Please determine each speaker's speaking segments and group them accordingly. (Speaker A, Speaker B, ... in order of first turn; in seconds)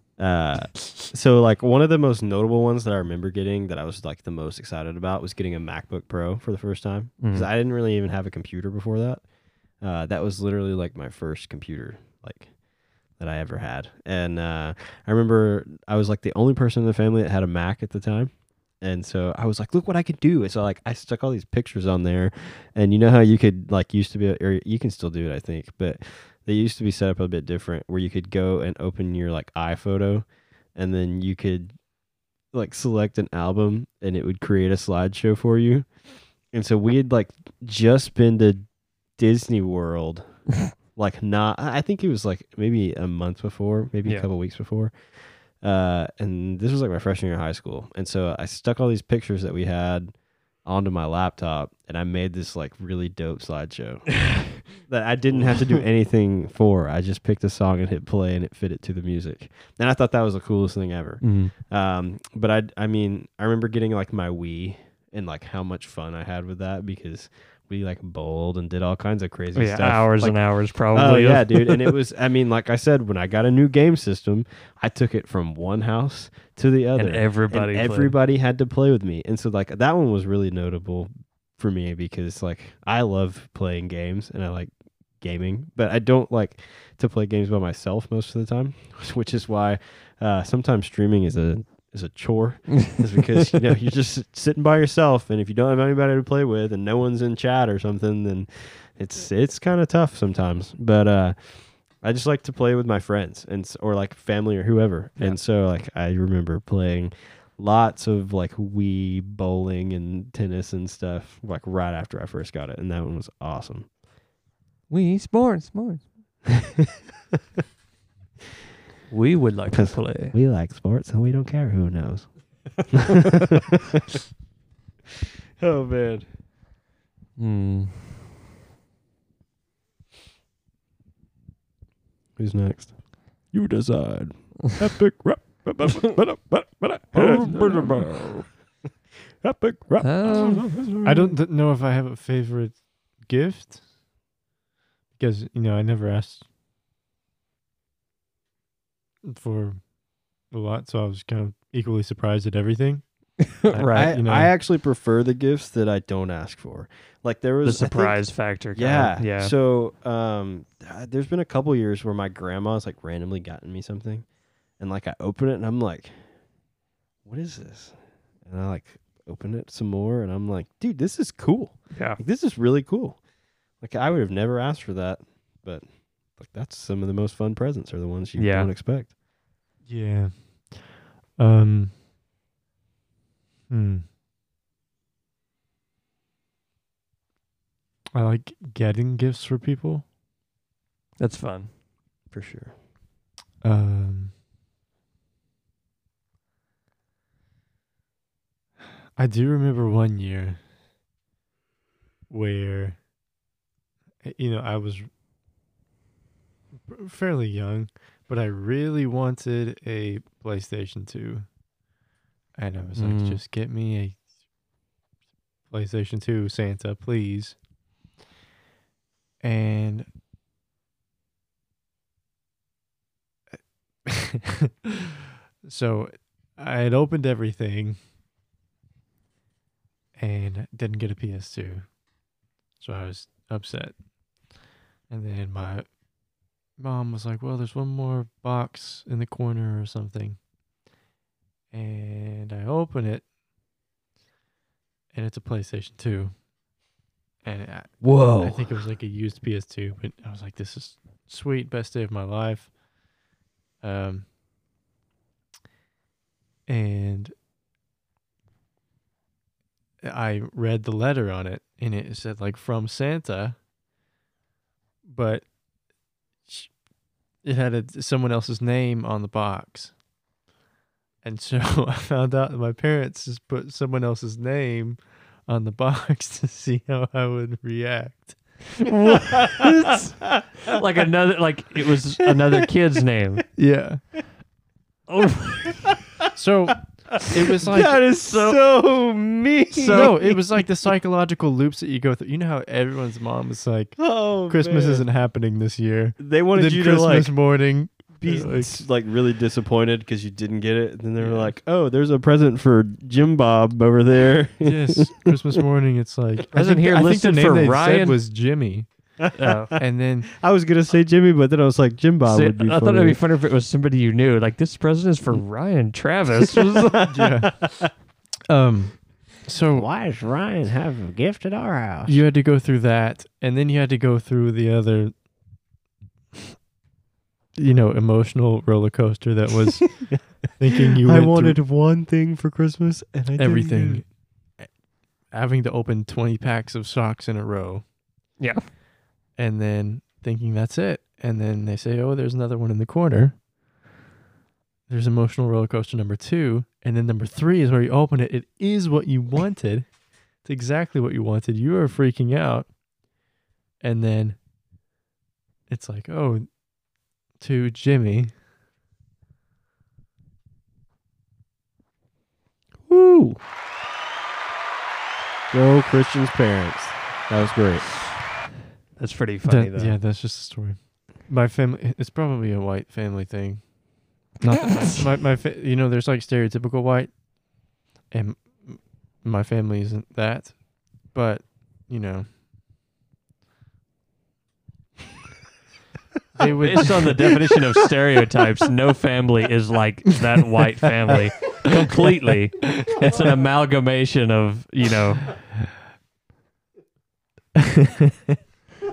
Speaker A: 0.2-31.7, 32.5-35.9, 36.5-38.6, 39.2-40.4, 41.0-113.9, 116.5-116.9, 119.7-123.8, 125.6-126.2, 132.4-138.6, 139.4-141.4, 153.7-166.3, 167.2-173.2, 173.8-179.1, 192.3-192.7, 248.0-248.7, 279.3-280.4, 282.2-282.7, 287.1-290.6, 294.0-295.1, 296.2-297.5, 298.2-305.3, 309.2-309.7, 310.3-313.2, 316.4-317.9, 319.7-322.2, 330.9-334.0, 362.9-363.4, 365.5-367.9
Speaker B: 7.2-7.5, 61.2-61.5, 69.5-71.9, 77.0-78.1, 114.9-116.1, 119.1-120.3, 127.4-128.1, 137.1-138.3, 140.0-140.7, 153.5-154.1, 157.6-159.5, 171.9-172.2, 178.4-178.7, 191.2-191.7, 213.0-213.4, 278.9-283.4, 285.1-285.8, 288.0-288.7, 289.7-290.3, 306.5-308.2, 309.3-309.8, 312.2-317.1, 338.4-338.6, 369.0-369.9, 386.6-395.5
Speaker C: 141.0-143.8, 145.1-146.4, 149.2-149.8, 150.5-153.0, 153.7-154.5, 179.9-181.9, 183.7-184.0, 188.1-190.0, 193.6-194.3, 199.2-200.6, 202.3-203.0, 204.2-205.1, 206.9-211.5, 212.6-214.2, 215.7-217.6, 219.4-220.1, 224.0-224.9, 225.6-228.0, 230.2-232.0, 232.8-234.0, 235.1-235.9, 236.8-240.4, 241.7-243.3, 245.1-246.4, 247.4-252.7, 253.8-254.2, 256.7-257.3, 260.0-263.6, 265.0-265.5, 266.4-266.7, 267.4-269.9, 271.2-278.6, 283.6-284.0, 286.3-288.0, 289.9-298.8, 301.2-301.5, 304.6-308.9, 309.8-310.3, 317.1-317.6, 318.5-319.9, 322.1-325.2, 327.5-331.6, 333.4-334.7, 335.3-337.8, 339.4-343.4, 344.9-349.9, 350.4-352.7, 353.8-354.4, 355.7-356.5, 357.4-358.3, 369.4-373.7, 374.4-377.1, 378.1-382.3, 386.4-387.3, 392.8-393.2, 397.6-398.4